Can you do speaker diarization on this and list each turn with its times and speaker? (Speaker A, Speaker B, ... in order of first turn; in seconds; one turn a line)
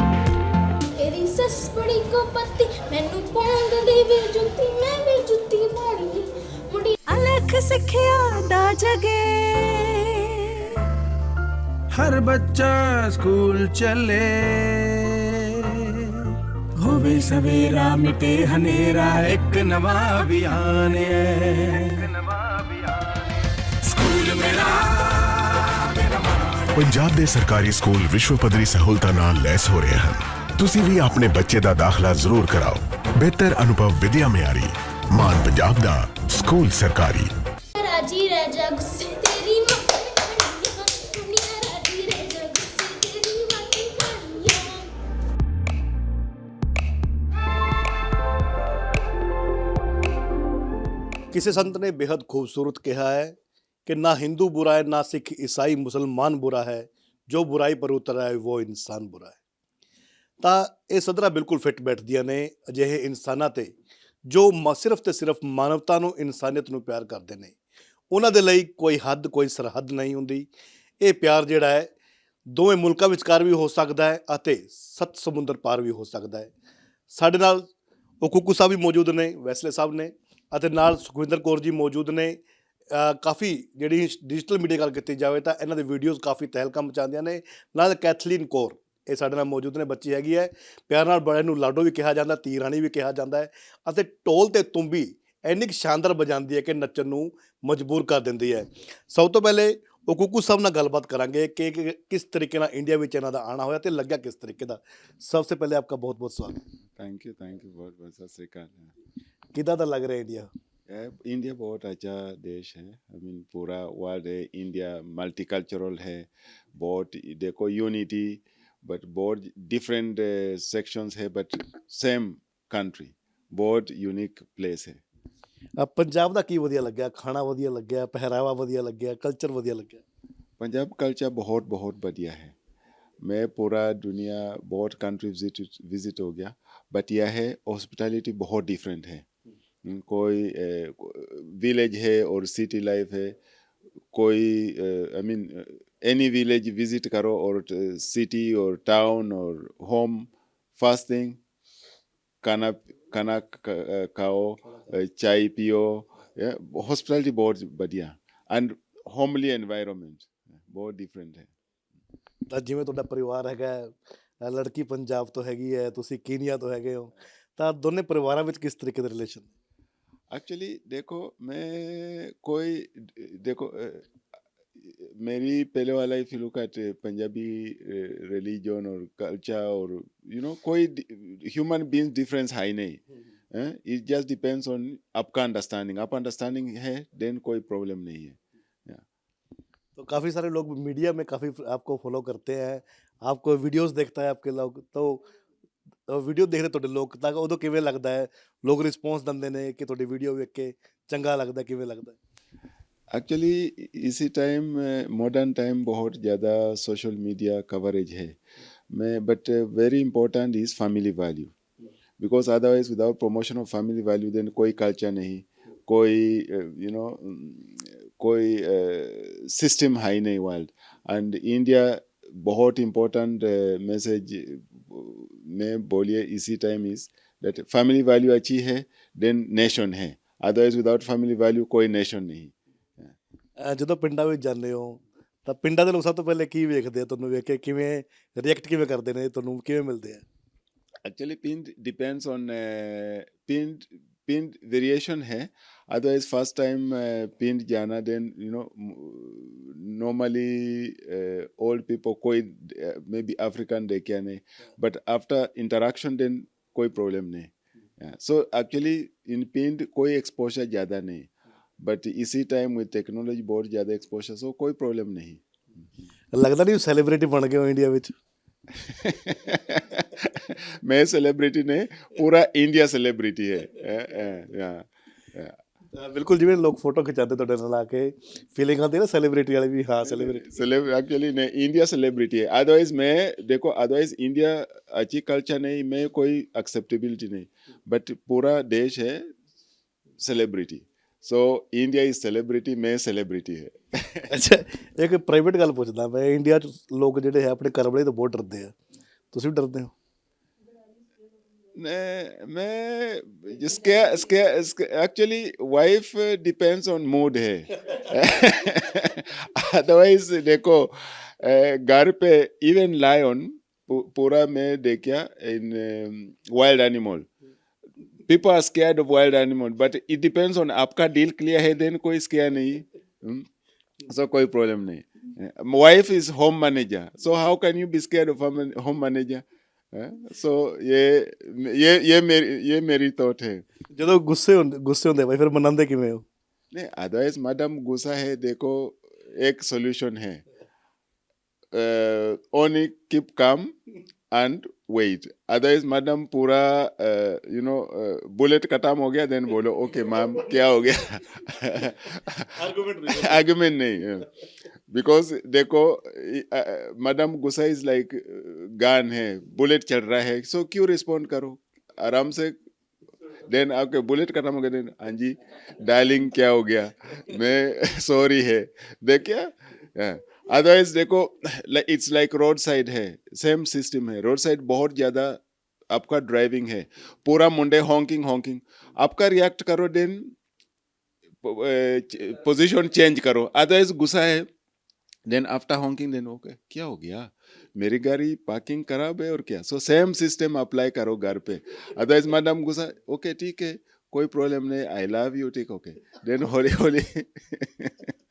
Speaker A: 1.0-7.2
Speaker B: 7.2-9.8
Speaker C: 11.9-15.8
Speaker C: 16.8-22.1
Speaker C: 24.0-25.1
Speaker D: 26.7-37.3
Speaker A: 37.8-44.9
Speaker E: 51.3-59.4
Speaker E: 60.4-63.7
Speaker E: 64.3-67.5
Speaker E: 68.1-70.5
Speaker E: 71.0-71.9
Speaker E: 72.5-76.5
Speaker E: 77.1-77.7
Speaker E: 78.2-82.4
Speaker E: 82.9-106.6
Speaker F: 107.0-108.9
Speaker E: 109.5-110.5
Speaker F: 110.9-125.0
Speaker E: 125.8-130.0
Speaker F: 130.6-132.5
Speaker F: 133.2-139.2
Speaker F: 139.8-143.4
Speaker F: 144.1-151.4
Speaker F: 152.4-161.5
Speaker E: 162.5-169.5
Speaker F: 170.3-174.1
Speaker F: 174.8-183.0
Speaker F: 183.5-189.0
Speaker E: 190.0-195.3
Speaker E: 196.1-202.2
Speaker F: 203.1-208.4
Speaker F: 208.9-211.5
Speaker F: 212.2-233.1
Speaker E: 233.6-240.2
Speaker F: 241.1-261.3
Speaker F: 261.8-265.4
Speaker E: 266.3-268.1
Speaker F: 268.8-275.6
Speaker E: 275.9-280.5
Speaker F: 280.0-289.3
Speaker F: 290.2-294.3
Speaker E: 294.3-298.7
Speaker E: 299.3-299.9
Speaker F: 301.8-317.3
Speaker F: 318.3-323.5
Speaker F: 324.1-333.6
Speaker E: 333.9-336.2
Speaker F: 336.7-340.4
Speaker F: 341.7-343.7
Speaker F: 344.3-352.5
Speaker E: 352.6-353.4
Speaker F: 353.1-354.3
Speaker F: 354.9-362.6
Speaker F: 363.5-380.3
Speaker F: 381.4-384.5
Speaker F: 385.3-398.1